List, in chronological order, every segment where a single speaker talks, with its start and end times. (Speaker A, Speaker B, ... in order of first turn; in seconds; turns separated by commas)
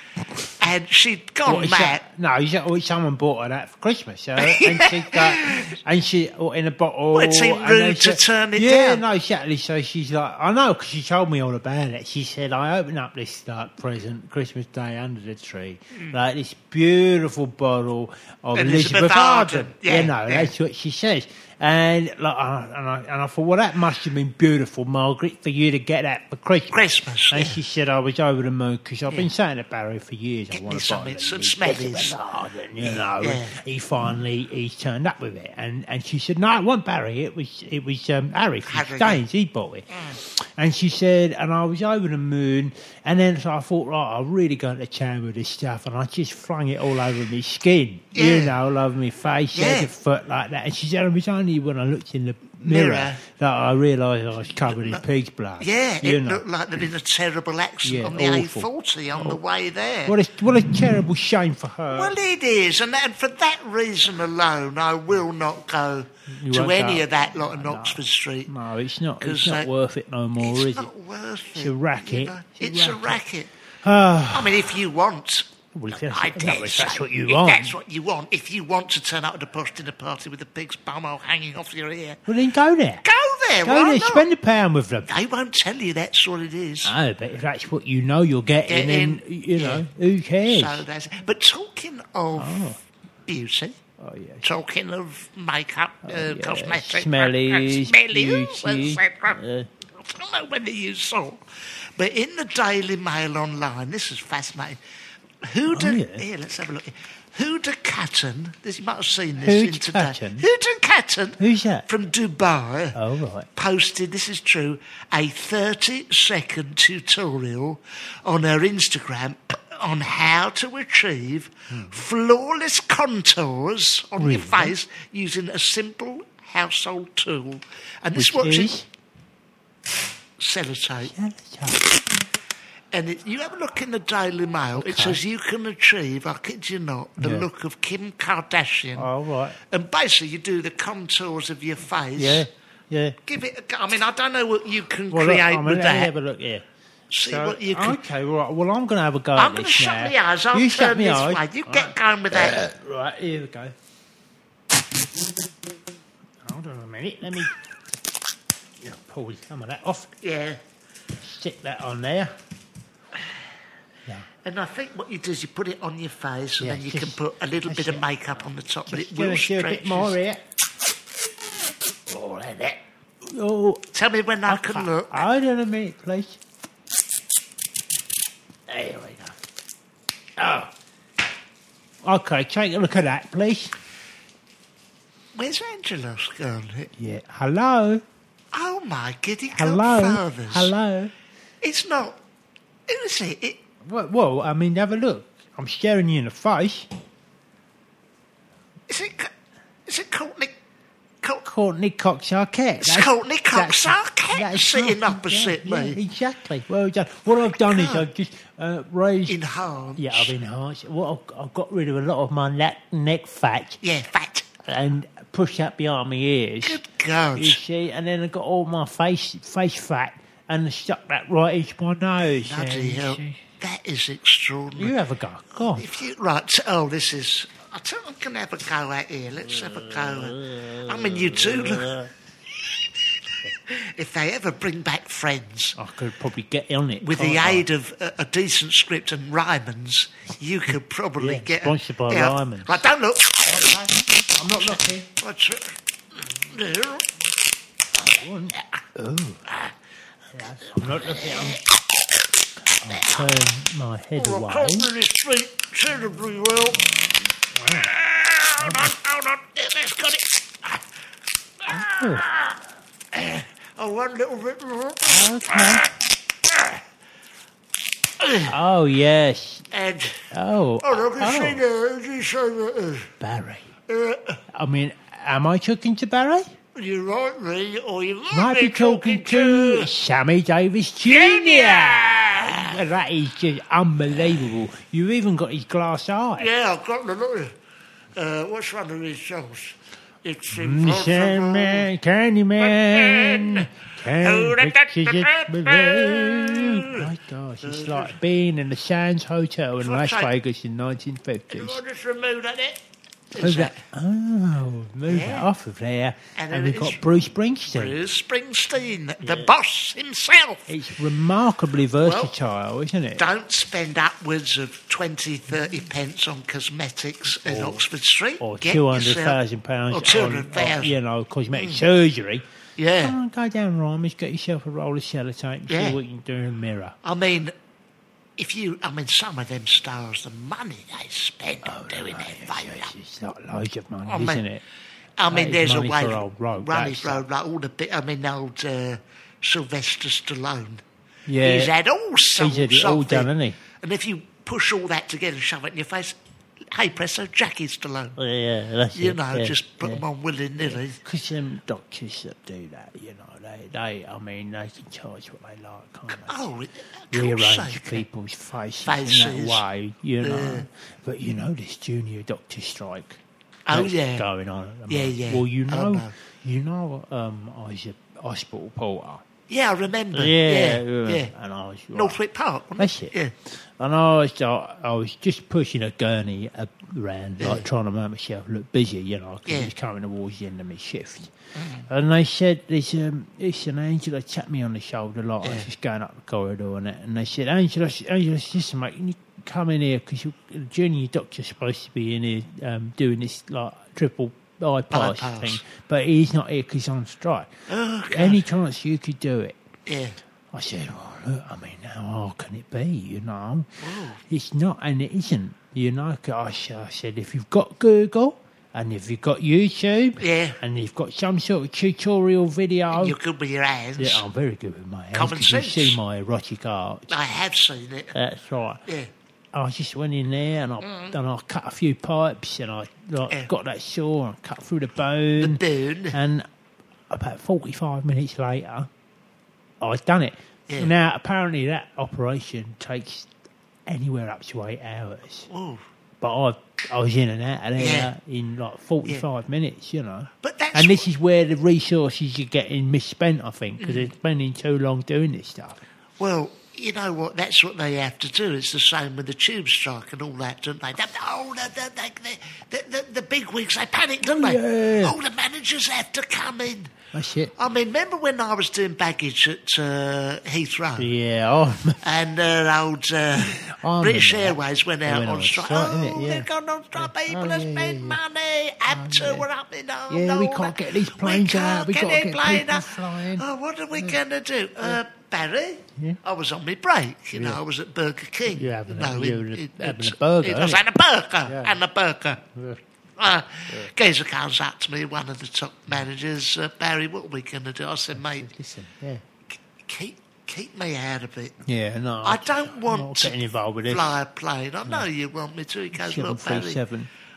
Speaker A: 0.6-2.0, Speaker B: 1.4-56.4, Speaker A: 4.4-5.7, Speaker A: 7.1-9.0, Speaker A: 18.5-20.5, Speaker A: 26.7-27.6, Speaker A: 30.5-32.1, Speaker A: 32.8-33.5, Speaker A: 38.6-39.2, Speaker A: 48.1-48.5, Speaker A: 49.5-49.9, Speaker A: 52.6-53.2, Speaker A: 54.7-55.0, Speaker A: 55.6-60.1, Speaker B: 57.8-59.4, Speaker B: 60.0-62.1, Speaker A: 61.9-68.5, Speaker B: 66.3-70.9, Speaker A: 69.2-69.7, Speaker A: 70.4-73.5, Speaker B: 71.5-73.2, Speaker B: 73.8-74.8, Speaker A: 74.3-82.2, Speaker B: 75.7-77.8, Speaker B: 82.3-83.0, Speaker A: 83.0-84.3, Speaker B: 83.6-85.1, Speaker A: 85.1-86.9, Speaker B: 86.8-90.8, Speaker A: 88.7-89.8, Speaker A: 90.5-92.6, Speaker B: 92.3-92.8, Speaker A: 93.3-93.8, Speaker B: 94.0-94.5, Speaker A: 94.4-99.4, Speaker B: 96.0-99.7, Speaker A: 100.0-101.4, Speaker A: 102.0-104.8, Speaker A: 105.4-113.0, Speaker B: 105.7-106.2, Speaker B: 109.4-110.4, Speaker B: 111.4-111.9, Speaker B: 112.9-113.5, Speaker A: 113.5-128.7, Speaker B: 121.7-122.0, Speaker B: 124.2-124.7, Speaker B: 128.2-128.9, Speaker A: 130.4-131.1, Speaker B: 131.0-131.9, Speaker A: 132.9-139.1, Speaker B: 134.7-135.2, Speaker B: 137.2-137.5, Speaker B: 138.9-139.6, Speaker A: 139.7-142.4, Speaker B: 142.2-143.2, Speaker A: 143.2-146.1, Speaker B: 145.1-146.6, Speaker A: 147.1-148.0, Speaker B: 147.2-153.7, Speaker A: 149.3-152.6, Speaker B: 156.4-157.5, Speaker B: 158.8-160.1, Speaker A: 160.2-160.6, Speaker B: 161.2-162.3, Speaker A: 164.4-170.2, Speaker B: 166.6-168.0, Speaker B: 168.9-170.4, Speaker B: 172.1-173.8, Speaker A: 173.9-175.3, Speaker B: 174.4-176.4, Speaker B: 178.7-179.3, Speaker B: 180.4-180.7, Speaker B: 182.0-183.7, Speaker A: 185.3-186.9, Speaker B: 186.9-188.0, Speaker A: 188.5-190.7, Speaker B: 189.5-191.1, Speaker A: 191.6-192.2, Speaker A: 192.9-193.6, Speaker B: 193.8-196.9, Speaker A: 198.9-199.3, Speaker A: 199.8-200.5, Speaker B: 201.4-209.4, Speaker A: 202.8-206.0, Speaker A: 207.5-208.1, Speaker A: 209.3-210.3, Speaker B: 209.9-213.8, Speaker A: 213.8-214.5, Speaker B: 214.6-216.8, Speaker A: 216.6-217.6, Speaker B: 217.3-223.4, Speaker A: 222.3-224.9, Speaker B: 224.8-225.9, Speaker A: 225.7-232.0, Speaker B: 229.6-232.1, Speaker A: 233.7-235.8, Speaker B: 235.8-237.7, Speaker A: 237.0-243.7, Speaker B: 241.2-242.8, Speaker B: 243.5-245.1, Speaker A: 244.6-247.1, Speaker B: 248.0-249.4, Speaker B: 250.3-251.6, Speaker A: 250.8-251.8, Speaker B: 252.8-254.9, Speaker A: 252.9-253.3, Speaker A: 254.2-256.9, Speaker B: 256.8-257.9, Speaker A: 257.7-260.8, Speaker B: 258.6-258.9, Speaker A: 261.6-262.6, Speaker B: 261.7-262.3, Speaker A: 263.1-265.9, Speaker B: 265.1-265.9, Speaker A: 266.4-266.8, Speaker A: 268.2-268.5, Speaker B: 268.4-269.7, Speaker A: 269.7-270.2, Speaker B: 270.3-271.6, Speaker A: 270.8-273.1, Speaker B: 273.2-273.7, Speaker A: 273.9-274.4, Speaker B: 274.5-276.5, Speaker A: 276.7-279.9, Speaker B: 278.3-286.5, Speaker A: 281.0-282.8, Speaker A: 286.4-287.6, Speaker A: 288.1-291.9, Speaker B: 290.5-301.8, Speaker A: 292.6-297.1, Speaker A: 297.6-298.2, Speaker A: 299.8-300.3, Speaker A: 301.5-303.8, Speaker B: 303.4-308.0, Speaker A: 305.1-305.5, Speaker A: 306.4-307.0, Speaker A: 307.7-310.7, Speaker B: 309.2-309.5, Speaker B: 310.7-313.2, Speaker A: 312.0-312.3, Speaker A: 313.2-319.4, Speaker B: 317.4-317.9, Speaker B: 318.4-322.4, Speaker A: 319.9-320.9, Speaker A: 321.5-321.8, Speaker A: 322.8-323.2, Speaker B: 323.0-326.9, Speaker A: 325.7-326.0, Speaker A: 327.0-327.5, Speaker A: 328.4-332.9, Speaker B: 331.6-334.6, Speaker A: 334.1-334.4, Speaker A: 335.2-340.8, Speaker B: 335.3-337.2, Speaker B: 341.3-341.7, Speaker A: 341.4-346.2, Speaker B: 342.4-343.6, Speaker A: 346.7-348.2, Speaker B: 348.2-350.0, Speaker A: 348.9-351.0, Speaker B: 350.6-356.4, Speaker A: 356.2-358.0, Speaker B: 357.1-363.2, Speaker A: 358.9-359.6, Speaker A: 360.2-360.7, Speaker A: 363.6-364.2, Speaker B: 363.7-369.2, Speaker A: 364.9-366.1, Speaker A: 369.5-371.3, Speaker B: 370.1-372.2, Speaker A: 371.9-373.3, Speaker B: 372.8-381.3, Speaker A: 377.4-377.6, Speaker A: 379.5-379.7, Speaker A: 381.5-381.9, Speaker B: 381.9-397.5, Speaker A: 385.4-385.7, Speaker A: 394.9-395.6, Speaker A: 397.7-398.4, Speaker B: 398.1-399.6, Speaker A: 399.9-400.2, Speaker B: 400.5-403.7, Speaker A: 403.8-404.2, Speaker B: 404.2-413.1, Speaker A: 410.2-410.6, Speaker A: 412.9-414.2, Speaker B: 414.0-417.1, Speaker A: 415.1-416.0, Speaker A: 417.1-418.1, Speaker B: 418.1-418.8, Speaker B: 419.5-426.4, Speaker A: 420.8-421.1, Speaker A: 425.4-426.2, Speaker B: 427.1-428.9, Speaker B: 429.8-433.3, Speaker B: 433.9-435.5, Speaker A: 435.5-435.8, Speaker B: 436.2-445.8, Speaker A: 437.8-438.1, Speaker A: 440.4-441.1, Speaker A: 443.8-444.1, Speaker A: 446.2-456.9, Speaker B: 454.2-455.1, Speaker B: 457.1-457.5, Speaker A: 457.6-461.1, Speaker B: 461.0-462.0, Speaker A: 462.0-482.4, Speaker B: 463.5-468.2, Speaker B: 468.9-469.5, Speaker B: 470.1-473.4, Speaker B: 477.3-477.6, Speaker B: 478.5-480.8, Speaker B: 481.4-481.8, Speaker B: 482.5-482.8, Speaker A: 483.2-488.5, Speaker B: 483.7-483.9, Speaker B: 488.1-489.2, Speaker A: 489.8-491.6, Speaker B: 491.6-494.1, Speaker A: 492.2-496.8, Speaker B: 495.9-497.1